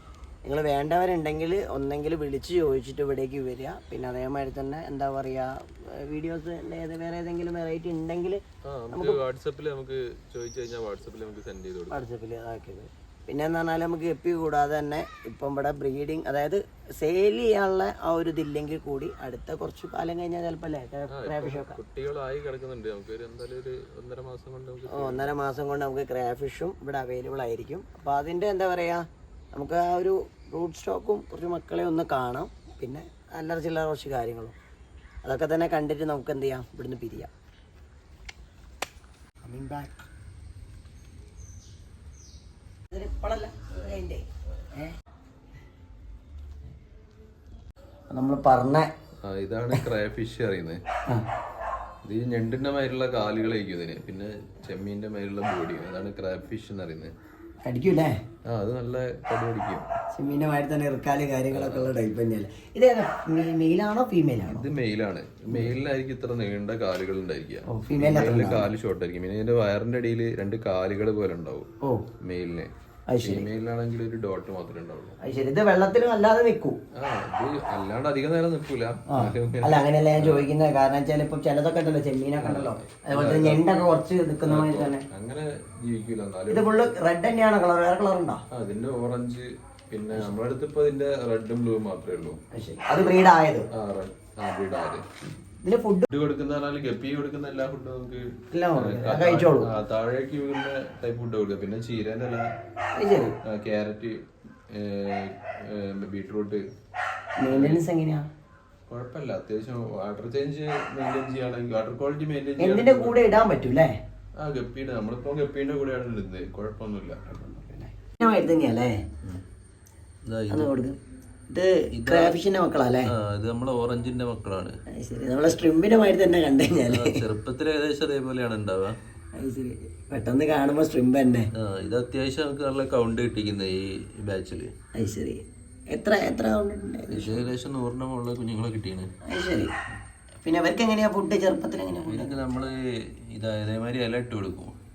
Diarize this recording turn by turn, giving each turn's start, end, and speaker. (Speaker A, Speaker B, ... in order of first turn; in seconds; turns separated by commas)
Speaker A: 0.5-9.2, Speaker B: 8.7-12.0, Speaker A: 11.9-21.8, Speaker B: 21.1-25.3, Speaker A: 24.9-34.5, Speaker A: 35.2-37.3, Speaker A: 39.4-40.0, Speaker A: 42.9-44.9, Speaker A: 48.1-48.9, Speaker B: 49.2-50.8, Speaker B: 52.0-57.1, Speaker A: 57.6-58.2, Speaker B: 58.5-59.9, Speaker A: 60.1-64.7, Speaker B: 61.5-61.9, Speaker B: 64.5-71.7, Speaker A: 67.7-68.7, Speaker A: 71.8-72.1, Speaker B: 72.2-72.7, Speaker A: 73.1-73.5, Speaker B: 73.2-75.2, Speaker A: 75.2-76.8, Speaker B: 77.0-80.5, Speaker A: 79.1-85.1, Speaker B: 82.4-83.7, Speaker B: 84.5-86.7, Speaker A: 86.5-88.4, Speaker B: 88.5-92.4, Speaker A: 92.5-93.7, Speaker B: 93.7-95.1, Speaker A: 95.2-96.1, Speaker B: 96.1-102.5, Speaker A: 98.5-99.7, Speaker A: 103.0-103.4, Speaker B: 103.4-106.6, Speaker A: 107.4-108.3, Speaker B: 107.5-107.8, Speaker B: 108.9-113.2, Speaker A: 112.6-113.9, Speaker B: 114.4-117.2, Speaker A: 117.3-119.0, Speaker B: 120.2-120.7, Speaker A: 120.5-121.0, Speaker A: 121.5-123.1, Speaker B: 121.9-122.4, Speaker B: 123.1-124.8, Speaker A: 124.9-127.2, Speaker B: 126.9-129.0, Speaker A: 129.3-131.5, Speaker B: 131.6-134.7, Speaker A: 134.9-137.4, Speaker B: 137.1-139.1, Speaker A: 139.2-139.7, Speaker A: 140.4-142.4, Speaker B: 142.1-144.8